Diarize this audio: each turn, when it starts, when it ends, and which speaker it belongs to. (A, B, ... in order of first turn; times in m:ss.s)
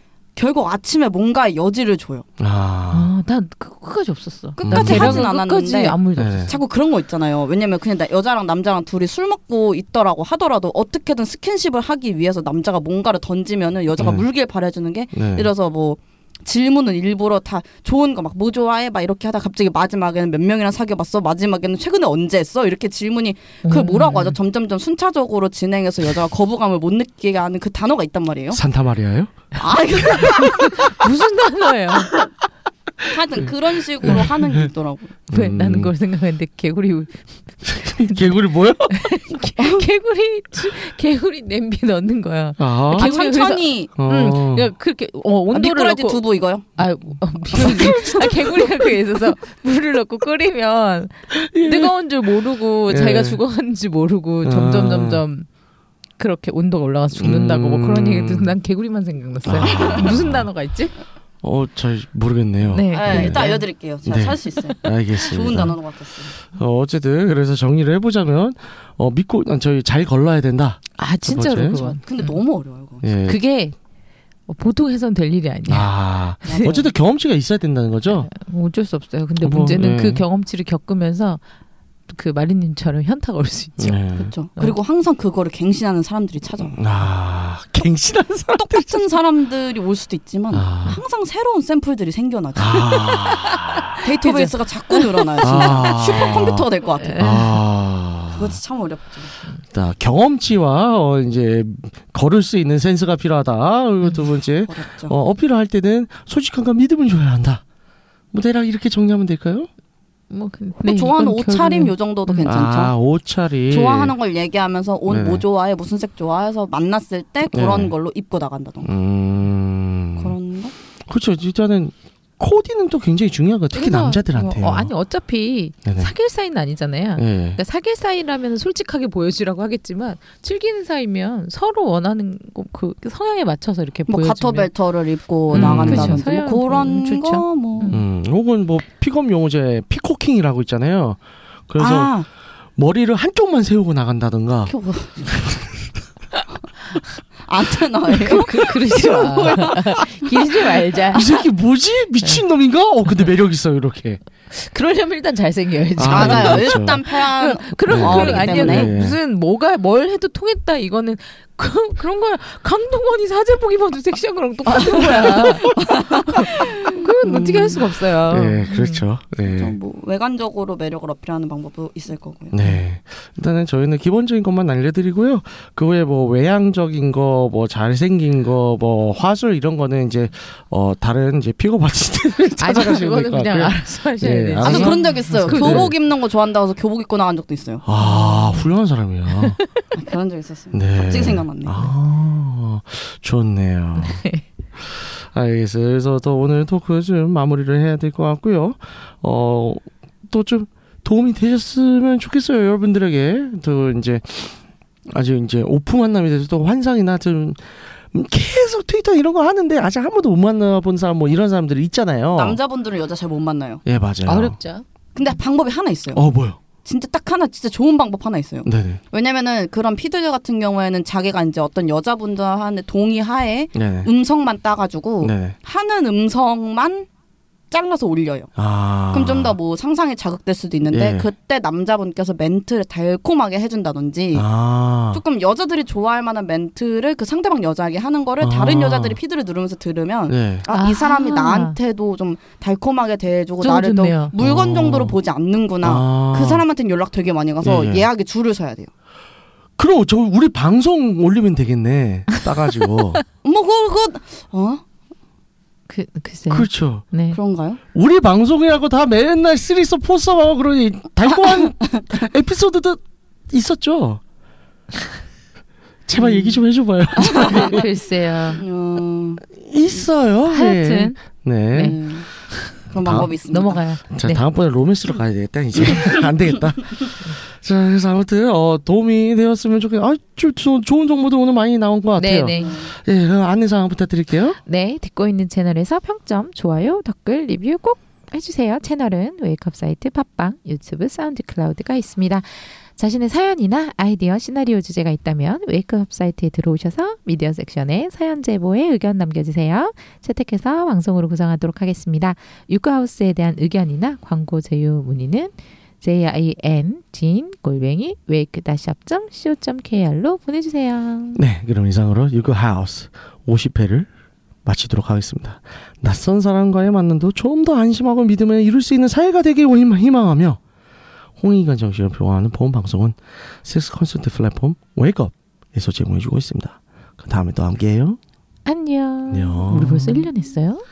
0:00.4-0:02.2 A
0:02.4-0:03.1 B
0:02.9-0:06.6 C
0:04.6-0:28.6 A
0:04.7-0:05.2 B
0:06.2-0:06.5 B
0:14.0-0:14.3 B
0:15.1-0:15.5 B
0:23.6-0:24.4 C
0:28.5-0:29.5 B
0:29.6-0:30.9 A
0:30.0-0:30.4 B
0:30.4-0:32.1 C
0:33.0-0:35.2 A
0:34.0-0:34.7 B
0:35.3-0:35.9 B
0:35.3-0:46.2 C
0:37.6-0:39.2 B
0:42.6-0:43.2 B
0:42.9-0:43.9 A
0:44.0-0:44.7 B
0:45.5-0:46.7 A
0:46.8-0:55.5 C
0:47.6-0:48.0 A
0:47.6-0:48.9 B
0:51.3-0:51.9 B
0:52.9-0:53.4 B
0:54.4-0:55.2 B
0:56.2-1:00.9 C
0:57.2-0:58.5 B
0:59.4-1:00.5 B
0:59.6-1:00.0 A
1:01.4-1:03.5 B
1:02.7-1:03.6 C
1:02.9-1:06.4 A
1:04.0-1:05.8 B
1:04.5-1:04.8 C
1:06.5-1:11.9 B
1:11.0-1:12.4 C
1:11.8-1:13.0 A
1:13.0-1:13.4 B
1:13.2-1:13.7 C
1:14.5-1:15.9 C
1:15.7-1:18.3 B
1:16.4-1:16.7 C
1:16.5-1:16.9 A
1:18.1-1:21.4 C
1:19.4-1:20.2 B
1:22.1-1:24.0 C
1:23.8-1:24.3 B
1:24.2-1:26.8 A
1:26.7-1:29.1 B
1:28.6-1:33.2 A
1:30.5-1:31.0 B
1:32.6-1:34.0 B
1:33.0-1:35.8 C
1:34.0-1:37.2 A
1:35.4-1:36.6 B
1:37.0-1:37.6 C
1:37.2-1:38.6 B
1:38.3-1:39.3 A
1:39.7-1:47.6 B
1:44.7-1:45.1 A
1:48.3-1:49.7 B
1:50.3-1:52.5 C
1:50.8-1:53.0 A
1:52.4-1:54.1 B
1:53.7-1:58.9 A
1:55.1-1:55.4 B
1:57.5-1:57.9 B
1:58.8-2:00.4 B
2:00.2-2:00.7 A
2:01.1-2:04.9 B
2:03.7-2:14.7 C
2:05.8-2:06.1 B
2:07.2-2:07.6 B
2:14.1-2:17.9 A
2:15.5-2:18.0 C
2:15.5-2:16.2 B
2:17.9-2:22.1 B
2:21.8-2:22.3 A
2:22.8-2:25.9 B
2:24.7-2:25.4 A
2:27.4-2:30.8 A
2:28.1-2:31.4 C
2:31.1-2:34.2 B
2:34.5-2:49.0 C
2:36.0-2:37.0 B
2:36.1-2:38.9 A
2:37.8-2:39.2 B
2:44.7-2:47.9 A
2:48.3-2:49.8 B
2:49.4-2:52.6 A
2:52.5-3:05.9 B
3:02.6-3:05.9 C
3:04.6-3:07.8 A
3:07.8-3:09.6 B
3:08.0-3:08.7 C
3:09.3-3:09.6 C
3:09.9-3:11.9 A
3:10.7-3:14.2 B
3:14.0-3:14.4 C
3:14.8-3:32.6 B
3:32.3-3:33.8 A
3:33.8-3:34.6 B
3:34.2-3:34.8 C
3:35.1-3:36.2 A
3:36.1-3:36.6 B
3:36.8-3:47.1 A
3:38.6-3:39.0 B
3:43.7-3:44.1 B
3:45.2-3:45.6 B
3:47.7-3:48.5 A
3:48.6-3:49.6 B
3:49.1-3:54.5 A
3:50.9-3:51.3 B
3:54.3-3:55.2 B
3:55.1-4:08.9 A
3:58.4-3:59.2 B
4:00.3-4:00.6 B
4:00.7-4:01.8 C
4:03.6-4:04.3 C
4:04.4-4:05.2 B
4:05.8-4:06.6 B
4:07.6-4:08.1 B
4:09.8-4:13.2 B
4:13.4-4:14.8 A
4:15.9-4:17.4 C
4:16.5-4:17.0 B
4:17.3-4:17.8 A
4:17.9-4:24.2 B
4:26.1-4:27.8 B
4:26.2-4:26.6 A
4:27.2-4:27.8 A
4:27.4-4:28.6 C
4:28.6-4:29.4 A
4:29.5-4:32.1 B
4:30.5-4:31.2 C
4:31.7-4:32.0 C
4:31.8-4:32.3 A
4:32.5-4:34.4 C
4:32.8-4:33.8 A
4:33.0-4:33.3 B
4:34.1-4:44.6 B
4:42.2-4:42.8 C
4:42.6-4:42.9 A
4:44.6-5:11.4 C
5:11.4-5:14.1 B
5:14.6-5:20.6 B
5:21.4-5:28.2 B
5:28.6-5:30.8 C
5:29.3-5:30.3 B